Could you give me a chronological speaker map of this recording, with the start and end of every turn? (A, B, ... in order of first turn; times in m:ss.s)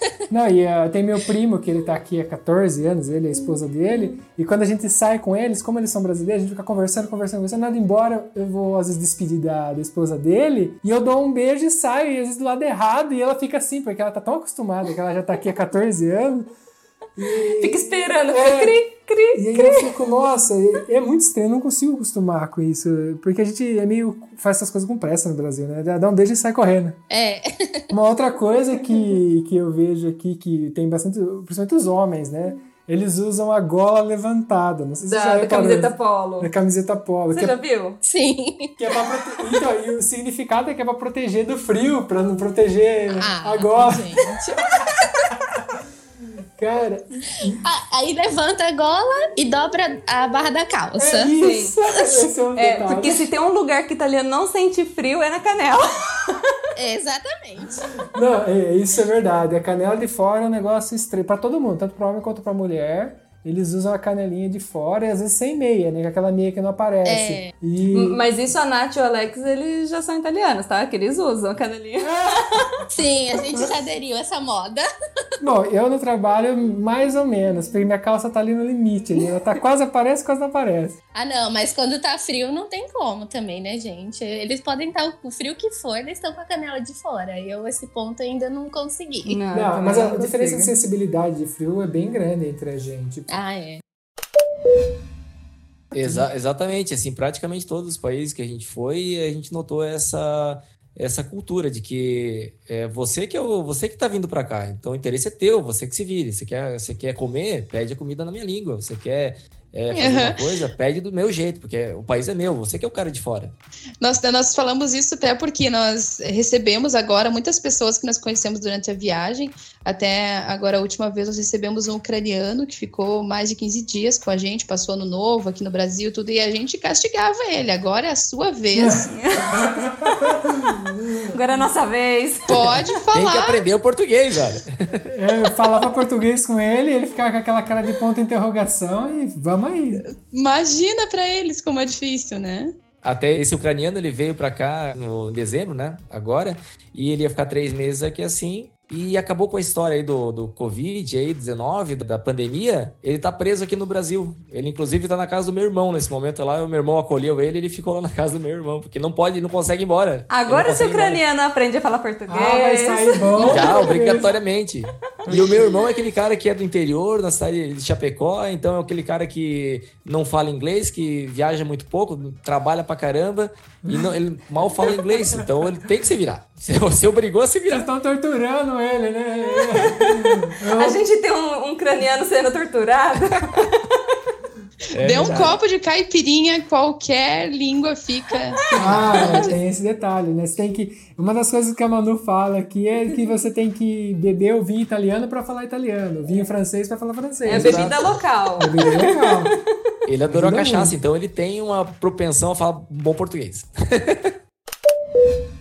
0:00.3-0:16.5 A
0:17.2-0:18.8 A
0:17.6-0:19.9 B
0:19.3-0:27.0 A
0:27.1-0:27.9 C
0:27.9-0:37.6 A
0:35.1-0:36.5 B
0:37.3-0:38.0 B
0:38.0-0:38.7 C
0:38.8-0:44.8 A
0:43.1-0:45.3 C
0:46.6-0:47.6 A
0:47.6-0:51.3 C
0:51.0-0:53.3 A
0:51.4-0:51.8 B
0:52.6-0:56.4 B
0:56.8-0:57.9 C
0:58.1-1:08.2 A
1:07.0-1:07.5 C
1:07.9-1:12.7 B
1:12.9-1:14.9 C
1:15.4-1:21.0 A
1:21.1-1:29.4 C
1:29.3-1:30.7 B
1:29.5-1:33.3 A
1:33.3-1:33.8 C
1:35.9-1:53.6 D
1:49.9-1:50.4 E
1:54.0-2:09.1 E
2:08.7-2:11.4 A
2:09.1-2:09.9 B
2:11.3-2:12.9 B
2:12.5-2:13.7 E
2:13.1-2:15.0 D
2:15.1-2:20.0 A
2:20.3-2:22.8 E
2:23.0-2:41.2 D
2:40.3-2:44.2 B
2:42.3-2:44.3 A
2:43.4-2:57.9 D
2:53.9-2:54.2 A
2:54.9-2:55.4 A
2:57.7-3:01.0 A
2:59.8-3:03.8 B
3:04.9-3:09.5 E
3:05.0-3:05.6 D
3:05.0-3:05.5 A
3:08.7-3:09.6 B
3:08.8-3:18.0 A
3:17.5-3:19.3 B
3:18.6-3:19.5 A
3:20.1-3:24.3 D
3:20.3-3:21.0 A